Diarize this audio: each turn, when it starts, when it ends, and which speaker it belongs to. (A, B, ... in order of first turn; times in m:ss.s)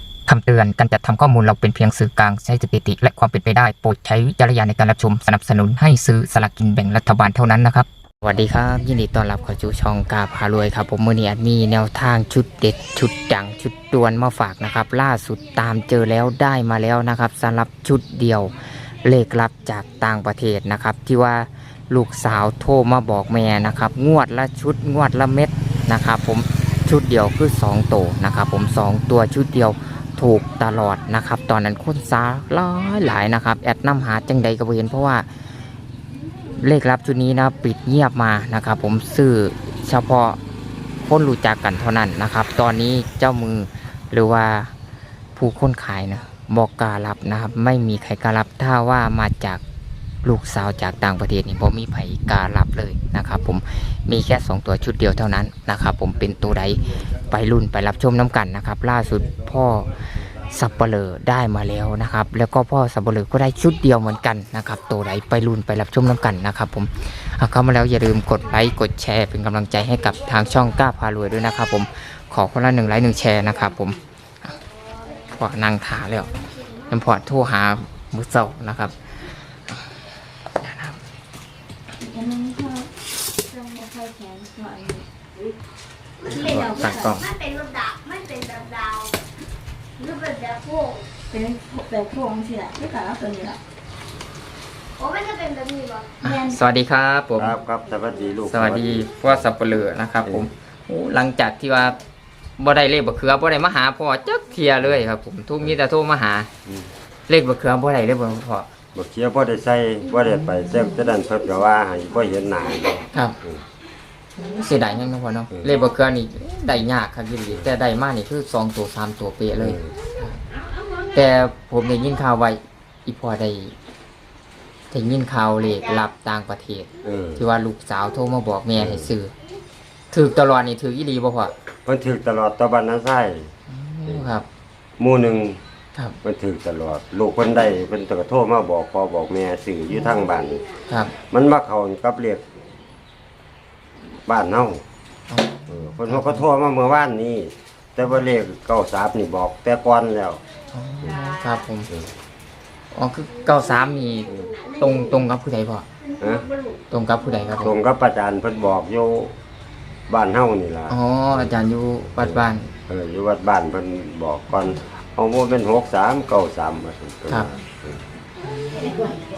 0:00.3-0:35.3 A
0:36.6-0:40.4 A
0:41.0-0:44.7 A
0:45.4-0:49.6 A
0:50.2-1:14.5 A
1:15.3-1:16.3 A
1:16.9-1:21.0 A
1:22.0-1:22.9 B
1:23.4-1:25.0 B
1:26.3-1:27.3 A
1:27.3-1:29.1 C
1:30.1-1:31.0 C
1:31.3-1:33.6 B
1:35.0-1:36.1 C
1:36.2-1:37.5 A
1:37.4-1:39.4 D
1:38.4-1:42.0 A
1:42.6-1:46.5 A
1:47.3-1:48.7 A
1:48.9-1:53.6 D
1:54.4-2:00.4 A
1:59.6-2:00.0 D
2:01.1-2:03.7 A
2:04.9-2:09.3 A
2:07.0-2:07.4 D
2:08.8-2:09.1 D
2:10.1-2:11.5 A
2:11.8-2:13.5 D
2:13.7-2:14.4 A
2:15.0-2:15.6 D
2:16.2-2:20.6 D
2:21.2-2:22.4 D
2:24.3-2:24.8 D
2:25.3-2:26.4 A
2:25.7-2:30.4 D
2:30.7-2:31.9 A
2:32.9-2:35.8 A
2:36.2-2:36.5 D
2:36.9-2:37.7 A
2:37.6-2:39.3 D
2:40.1-2:41.0 D
2:40.9-2:42.7 A
2:42.2-2:48.0 D